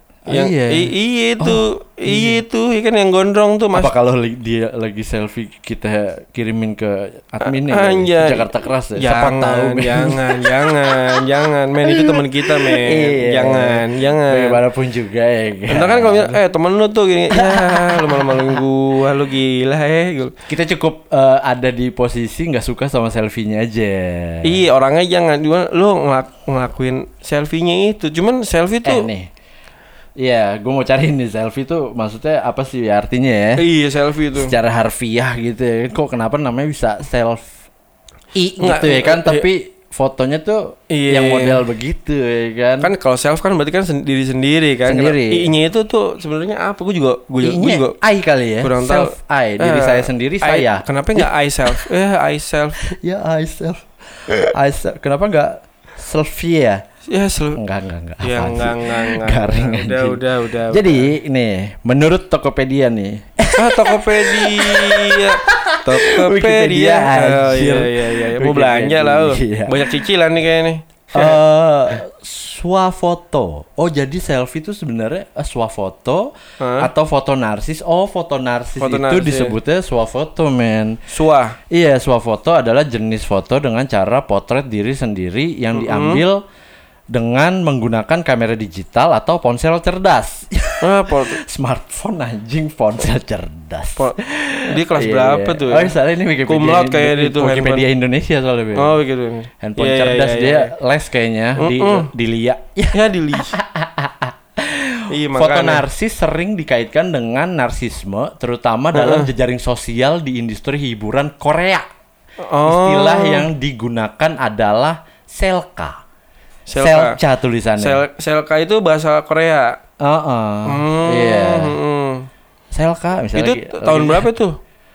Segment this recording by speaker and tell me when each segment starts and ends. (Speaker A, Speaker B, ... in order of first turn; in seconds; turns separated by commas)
Speaker A: 0.3-2.4, Speaker B: 0.3-3.9, Speaker A: 3.7-16.4, Speaker B: 7.4-14.6, Speaker B: 15.7-20.3, Speaker A: 17.3-18.6, Speaker A: 20.5-24.6, Speaker B: 24.4-29.1, Speaker A: 28.8-29.3, Speaker A: 30.2-33.6, Speaker B: 33.6-34.5, Speaker A: 34.3-37.5, Speaker A: 38.3-42.9, Speaker B: 38.6-39.5, Speaker B: 40.9-41.6, Speaker B: 42.8-48.0, Speaker A: 44.9-45.5, Speaker A: 47.4-51.9, Speaker B: 48.6-52.8, Speaker A: 52.8-56.8, Speaker B: 57.1-57.6, Speaker A: 57.6-70.0, Speaker B: 58.2-61.1, Speaker B: 63.5-71.4, Speaker A: 71.1-81.0, Speaker B: 76.6-76.9, Speaker B: 78.8-79.6, Speaker B: 81.1-81.6, Speaker A: 81.7-86.4, Speaker B: 85.7-86.2, Speaker A: 87.1-98.9, Speaker B: 90.8-91.4, Speaker B: 94.7-95.9, Speaker B: 96.5-97.8, Speaker B: 98.8-100.7, Speaker A: 99.6-111.9, Speaker B: 101.6-102.1, Speaker B: 102.9-103.5, Speaker B: 105.1-105.8, Speaker B: 108.9-109.3, Speaker B: 112.4-113.5, Speaker A: 112.6-116.0, Speaker B: 116.7-117.2, Speaker A: 116.8-118.0, Speaker B: 117.8-119.8, Speaker A: 120.0-121.8, Speaker B: 120.7-122.3, Speaker A: 122.7-124.3, Speaker B: 123.3-124.5